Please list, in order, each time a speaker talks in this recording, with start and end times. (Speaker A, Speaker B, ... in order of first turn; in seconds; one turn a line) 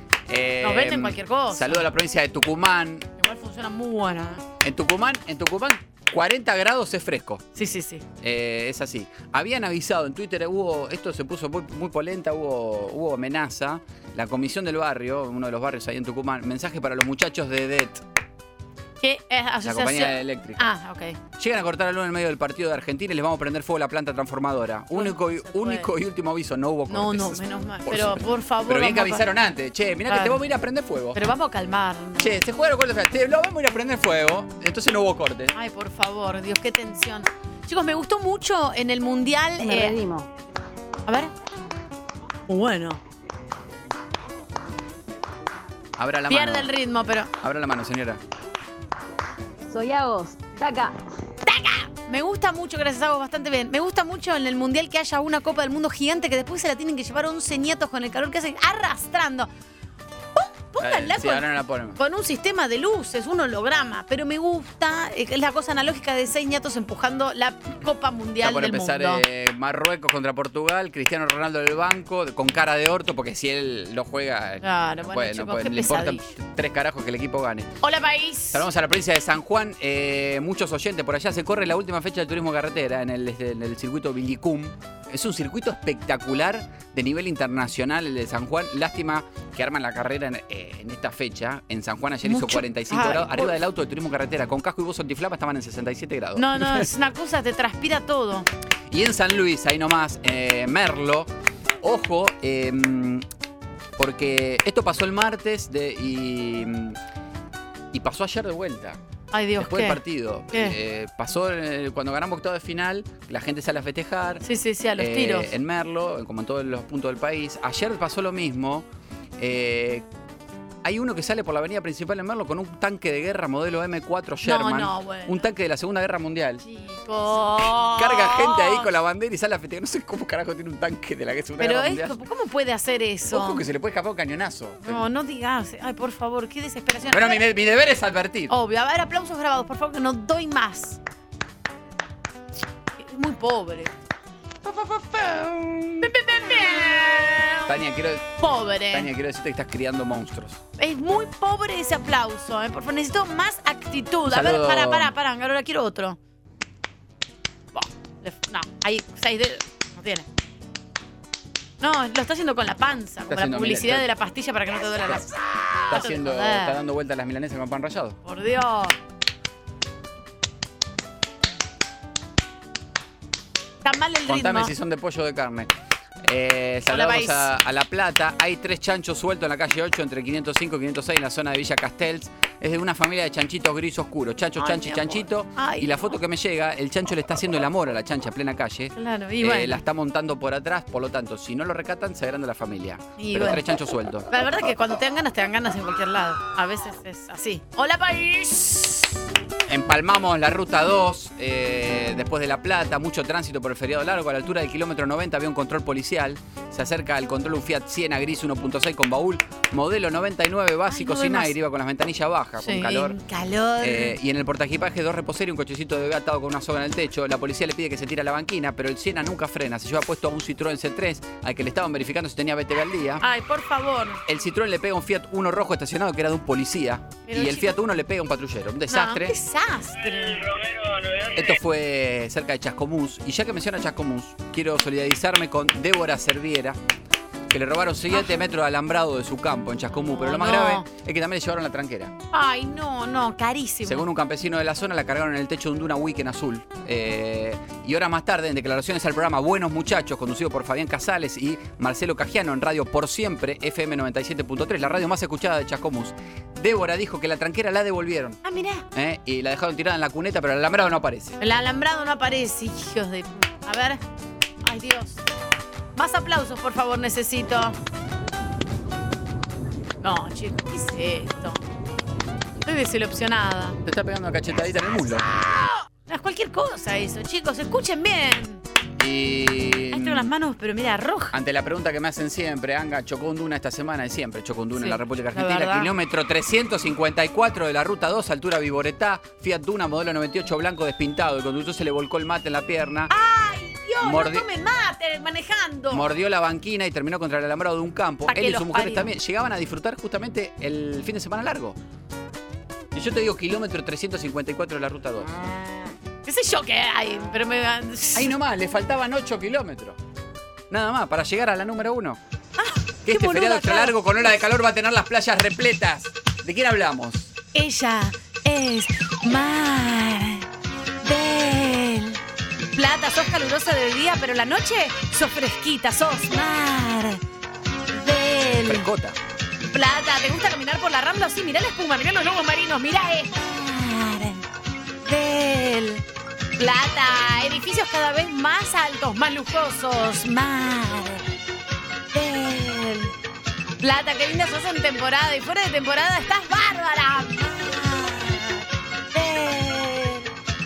Speaker A: 0.3-3.1
Speaker B: 0.6-1.8
Speaker B: 3.2-4.4
Speaker A: 4.6-7.4
Speaker B: 7.5-8.0
Speaker A: 8.2-18.0
Speaker B: 19.0-21.2
Speaker A: 19.6-20.6
Speaker A: 21.4-31.2
Speaker B: 24.9-25.9
Speaker B: 26.9-29.3
Speaker B: 30.1-30.4
Speaker B: 31.1-32.3
Speaker A: 32.2-35.5
Speaker B: 35.5-40.0
Speaker C: 39.6-40.3
Speaker B: 41.1-41.3
Speaker B: 42.5-43.0
Speaker A: 46.0-46.7
Speaker B: 46.3-47.3
Speaker A: 47.4-48.2
Speaker C: 49.7-51.0
Speaker B: 51.4-59.5
Speaker B: 60.3-69.2
Speaker A: 60.8-62.0
Speaker A: 68.4-77.7
Speaker B: 74.6-76.3
Speaker B: 77.8-78.7
Speaker A: 78.5-96.9
Speaker B: 92.2-93.5
Speaker B: 96.3-98.5
Speaker A: 98.9-101.3
Speaker A: 101.8-103.2
Speaker A: 104.0-107.0
Speaker A: 107.9-109.0
Speaker B: 109.3-110.8
Speaker A: 109.6-114.4
Speaker B: 114.4-115.5
Speaker A: 115.0-118.8
Speaker A: 119.4-120.0
Speaker A: 120.8-126.6
Speaker B: 124.4-125.5
Speaker B: 126.6-128.9
Speaker A: 128.0-132.1
Speaker B: 131.6-133.6
Speaker A: 133.3-135.1
Speaker B: 134.8-137.4
Speaker A: 137.1-138.5
Speaker B: 138.5-141.0
Speaker B: 143.0-143.9
Speaker A: 144.6-146.2
Speaker B: 146.0-147.7
Speaker A: 147.7-148.3
Speaker B: 148.4-149.1
Speaker A: 148.9-150.6
Speaker B: 150.8-156.2
Speaker A: 154.2-155.1
Speaker B: 157.7-160.2
Speaker B: 161.8-166.8
Speaker A: 163.3-164.1
Speaker A: 165.9-168.2
Speaker B: 168.2-168.9
Speaker B: 173.8-174.7
Speaker A: 174.3-175.7
Speaker A: 176.2-194.3
Speaker B: 176.9-177.5
Speaker B: 184.6-186.0
Speaker B: 188.9-189.8
Speaker B: 193.2-193.6
Speaker B: 194.3-199.1
Speaker A: 199.7-213.2
Speaker B: 210.9-211.5
Speaker B: 212.6-214.2
Speaker A: 213.8-223.2
Speaker B: 223.2-224.2
Speaker A: 224.2-229.3
Speaker B: 227.2-227.7
Speaker B: 228.9-230.5
Speaker A: 231.3-236.8
Speaker A: 237.5-242.1
Speaker B: 240.0-240.8
Speaker B: 242.3-244.0
Speaker A: 243.8-258.4
Speaker B: 258.4-258.8
Speaker A: 258.9-261.4
Speaker B: 261.4-264.0
Speaker B: 264.6-265.2
Speaker B: 265.9-267.7
Speaker B: 270.0-271.6
Speaker B: 272.6-273.8
Speaker A: 273.8-275.2
Speaker B: 275.6-278.6
Speaker A: 279.0-280.3
Speaker B: 279.9-281.3
Speaker A: 281.3-293.1
Speaker B: 284.8-285.9
Speaker B: 293.1-296.1
Speaker A: 294.0-294.4
Speaker A: 295.9-301.8
Speaker B: 298.3-299.1
Speaker A: 302.9-305.3
Speaker B: 306.2-308.3
Speaker A: 308.1-310.0
Speaker A: 310.7-312.2
Speaker B: 312.6-314.0
Speaker A: 313.1-317.3
Speaker B: 317.5-320.5
Speaker B: 321.0-322.2
Speaker B: 322.7-327.2
Speaker B: 327.9-328.9
Speaker A: 328.4-329.2
Speaker B: 329.7-334.4
Speaker B: 335.0-336.0
Speaker B: 336.6-341.2
Speaker B: 342.1-343.1
Speaker B: 343.8-350.3